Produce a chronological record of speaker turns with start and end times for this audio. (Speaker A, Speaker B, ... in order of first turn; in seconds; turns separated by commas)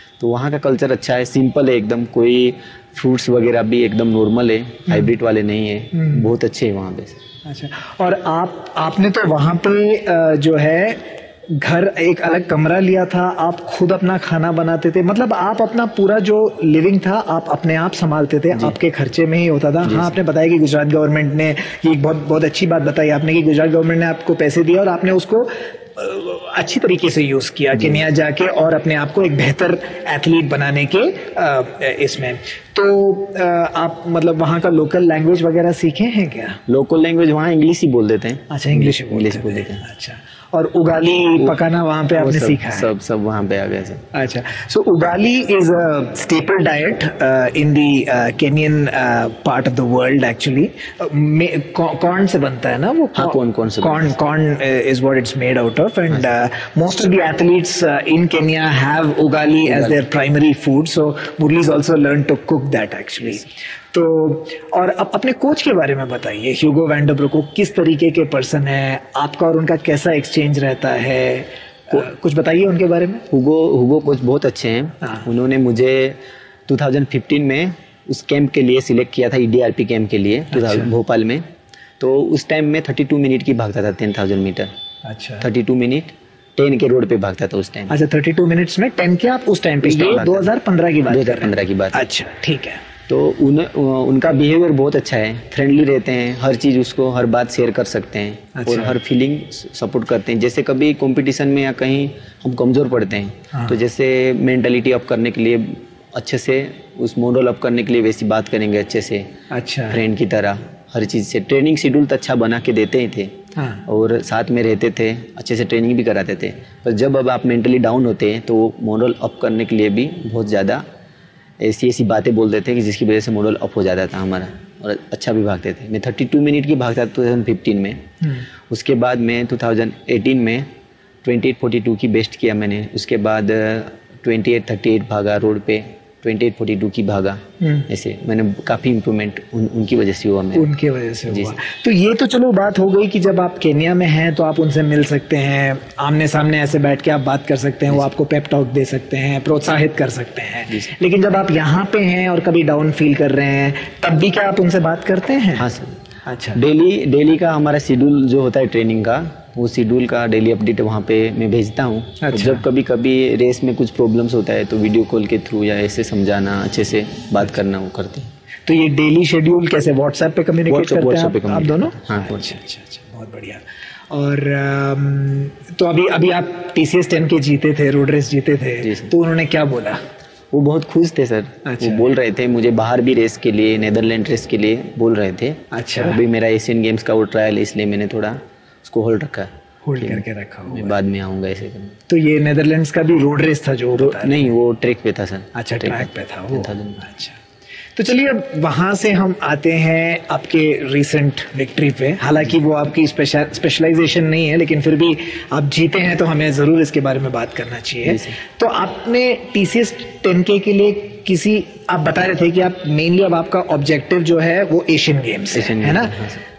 Speaker A: 0.2-7.2, Speaker B: 4.9-5.1, Speaker B: 5.9-6.3, Speaker B: 7.5-36.6, Speaker A: 19.8-20.1, Speaker A: 27.8-28.0, Speaker A: 36.7-39.8, Speaker B: 38.5-42.9, Speaker A: 42.2-44.0, Speaker B: 44.1-73.3, Speaker A: 53.1-54.1, Speaker A: 59.7-60.0, Speaker A: 73.3-81.5, Speaker B: 80.5-80.9, Speaker A: 82.0-84.7, Speaker B: 85.0-85.5, Speaker A: 85.4-87.9, Speaker B: 87.9-92.8, Speaker A: 89.8-90.5, Speaker A: 91.1-92.0, Speaker A: 93.1-109.3, Speaker B: 98.5-99.0, Speaker B: 103.5-103.8, Speaker B: 109.5-110.0, Speaker A: 109.9-120.8, Speaker B: 113.6-113.8, Speaker A: 121.6-128.1, Speaker B: 128.2-128.5, Speaker A: 128.7-130.7, Speaker A: 131.2-140.7, Speaker B: 137.6-137.9, Speaker B: 140.6-155.7, Speaker A: 141.3-141.6, Speaker A: 155.6-156.0, Speaker B: 156.3-156.6, Speaker A: 156.6-168.3, Speaker B: 162.2-162.7, Speaker B: 168.7-180.0, Speaker A: 170.7-172.6, Speaker A: 178.8-179.1, Speaker A: 180.5-192.0, Speaker B: 181.6-182.1, Speaker B: 185.7-186.2, Speaker B: 189.8-190.9, Speaker B: 192.1-194.5, Speaker A: 194.0-197.0, Speaker B: 195.5-197.4, Speaker B: 198.0-216.2, Speaker A: 208.0-208.4, Speaker A: 215.5-216.4